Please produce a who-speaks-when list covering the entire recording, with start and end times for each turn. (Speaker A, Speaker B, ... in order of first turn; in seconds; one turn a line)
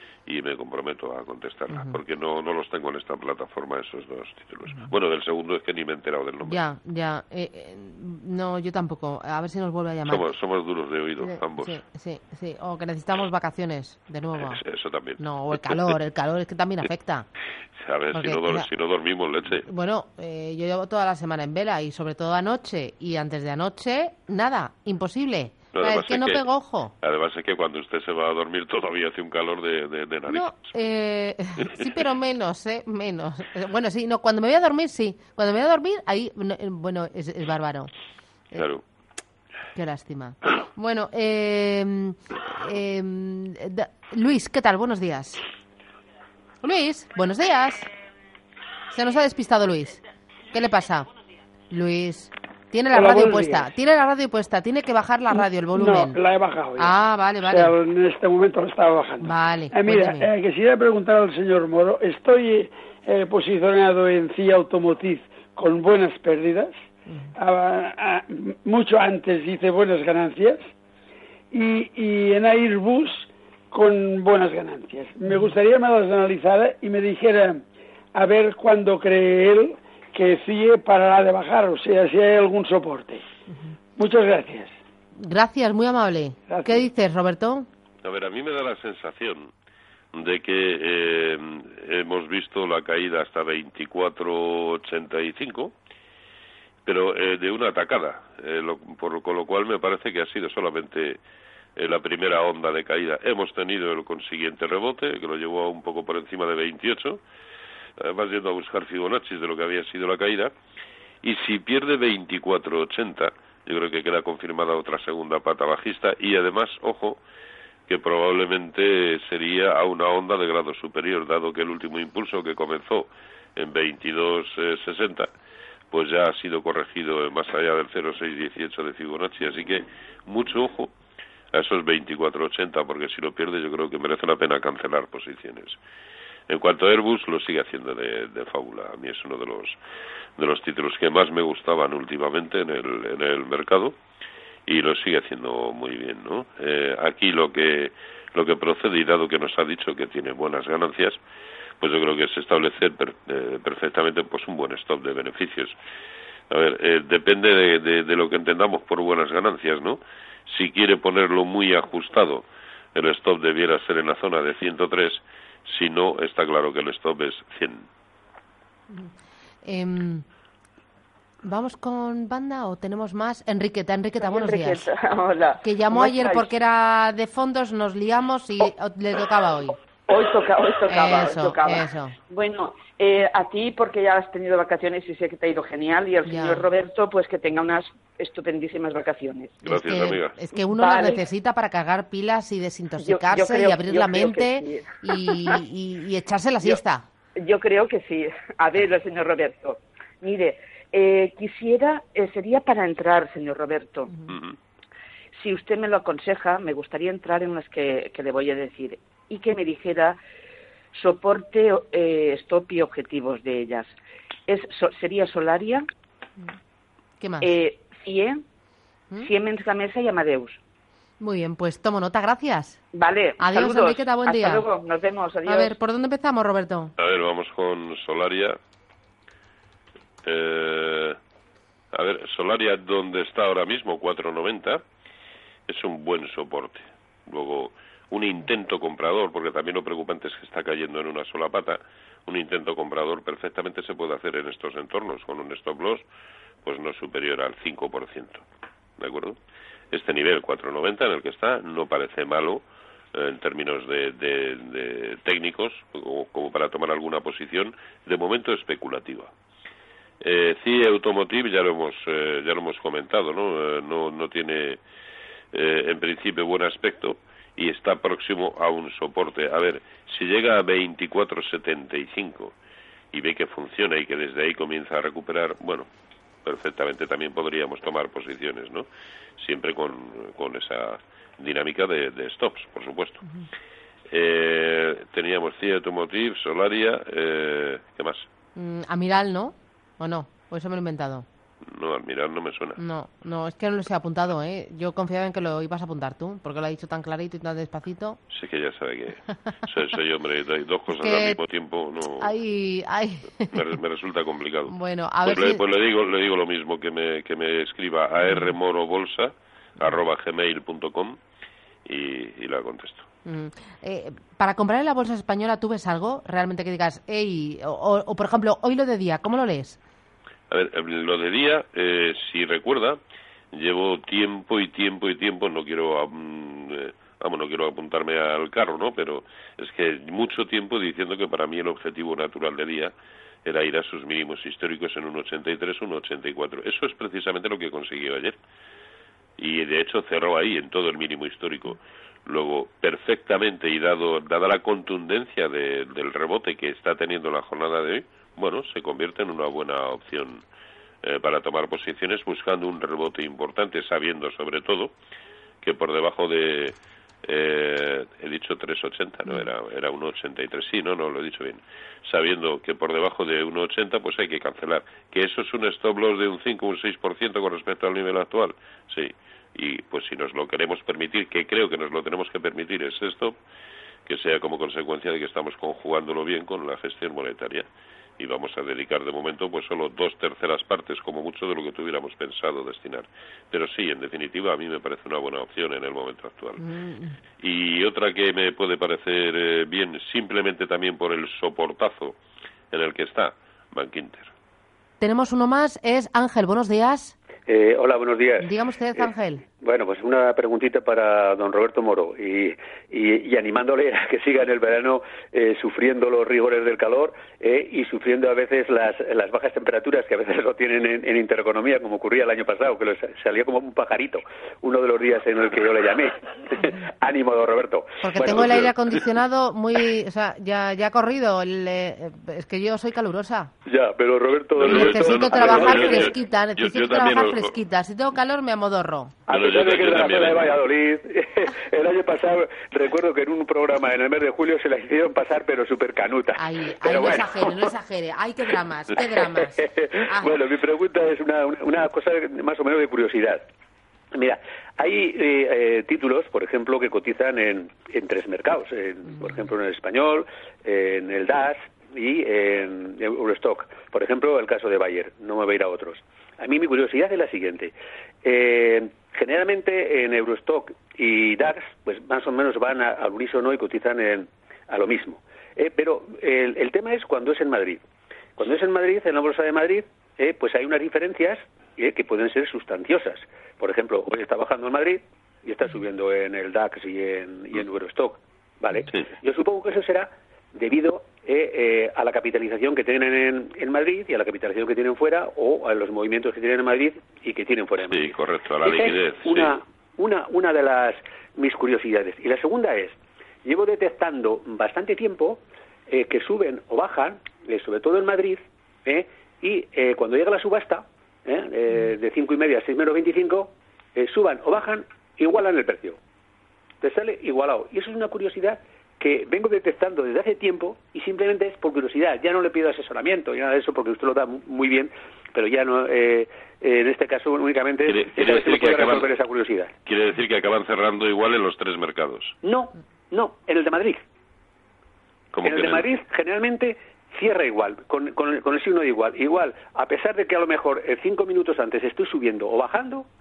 Speaker A: 0.3-6.6
Speaker B: 1.7-2.0
Speaker B: 6.4-10.2
Speaker A: 10.1-11.8
Speaker B: 11.2-14.6
Speaker A: 14.4-15.9
Speaker B: 15.2-17.3
Speaker A: 17.8-19.7
Speaker B: 18.1-18.7
Speaker B: 19.6-26.9
Speaker A: 25.7-26.4
Speaker A: 27.0-30.6
Speaker B: 30.3-37.9
Speaker A: 38.6-38.8
Speaker B: 39.8-45.4
Speaker B: 46.6-47.9
Speaker B: 48.9-50.0
Speaker B: 50.5-51.1
Speaker B: 51.7-56.2
Speaker C: 52.9-53.7
Speaker C: 55.7-66.7
Speaker B: 56.8-57.8
Speaker B: 59.2-60.3
Speaker C: 67.4-70.6
Speaker C: 71.5-77.6
Speaker C: 78.2-83.2
Speaker C: 84.0-84.7
Speaker B: 85.2-87.7
Speaker C: 86.5-86.9
Speaker A: 88.0-89.5
Speaker A: 90.1-95.7
Speaker A: 96.9-101.2
Speaker A: 101.8-107.2
Speaker A: 108.0-110.5
Speaker A: 111.2-117.2
Speaker A: 117.9-125.3
Speaker A: 125.9-130.9
Speaker A: 131.5-135.8
Speaker A: 136.5-139.8
Speaker A: 140.4-143.9
Speaker A: 144.7-151.2
Speaker A: 151.8-155.7
Speaker A: 156.5-167.8
Speaker B: 168.9-170.2
Speaker B: 171.4-174.9
Speaker D: 174.2-176.5
Speaker B: 175.6-179.8
Speaker D: 180.1-189.6
Speaker B: 180.9-182.1
Speaker B: 186.2-186.7
Speaker A: 189.7-190.4
Speaker B: 189.7-197.1
Speaker D: 190.5-191.3
Speaker D: 193.0-195.6
Speaker D: 197.4-204.1
Speaker A: 204.3-204.6
Speaker D: 205.3-210.2
Speaker D: 210.9-213.9
Speaker D: 214.5-215.9
Speaker B: 217.2-217.5
Speaker D: 217.4-218.4
Speaker D: 219.2-220.6
Speaker B: 221.2-222.8
Speaker D: 222.9-225.8
Speaker B: 223.4-224.7
Speaker B: 225.4-226.9
Speaker A: 227.0-228.6
Speaker A: 230.2-231.2
Speaker A: 231.9-234.8
Speaker A: 235.7-246.1
Speaker A: 246.7-248.4
Speaker A: 249.0-249.4
Speaker A: 249.9-252.6
Speaker A: 253.1-259.3
Speaker A: 260.2-264.8
Speaker A: 265.5-272.6
Speaker A: 273.1-275.9
Speaker A: 276.4-278.9
Speaker A: 279.4-283.2
Speaker A: 284.1-288.3
Speaker B: 288.6-291.3
Speaker A: 291.7-292.8
Speaker B: 292.8-298.2
Speaker A: 298.3-302.3
Speaker B: 300.9-301.4
Speaker B: 302.2-303.6
Speaker A: 303.5-311.2
Speaker B: 304.7-305.6
Speaker B: 308.3-308.5
Speaker A: 311.9-313.1
Speaker B: 313.2-319.8
Speaker A: 320.5-323.0
Speaker A: 323.5-332.9
Speaker A: 333.4-338.4
Speaker A: 339.4-350.4
Speaker A: 351.0-354.9
Speaker A: 355.6-373.4
Speaker A: 374.1-377.7
Speaker A: 378.2-386.6
Speaker B: 386.6-387.2
Speaker A: 387.4-392.2
Speaker A: 392.7-394.3
Speaker B: 395.0-397.1
Speaker E: 397.5-399.0
Speaker B: 398.4-399.4
Speaker E: 399.6-418.5
Speaker B: 418.0-423.5
Speaker A: 418.3-418.7
Speaker E: 423.7-426.1
Speaker A: 424.6-427.6
Speaker B: 424.7-429.1
Speaker E: 429.3-437.7
Speaker A: 429.3-430.6
Speaker B: 436.4-440.4
Speaker E: 439.0-443.4
Speaker E: 444.1-457.7
Speaker E: 458.2-467.8
Speaker E: 468.4-488.1
Speaker A: 487.8-489.6
Speaker E: 488.6-506.0
Speaker E: 506.8-519.7
Speaker A: 517.9-519.1
Speaker A: 519.9-522.4
Speaker E: 522.4-524.0
Speaker A: 525.3-525.9
Speaker E: 525.4-533.1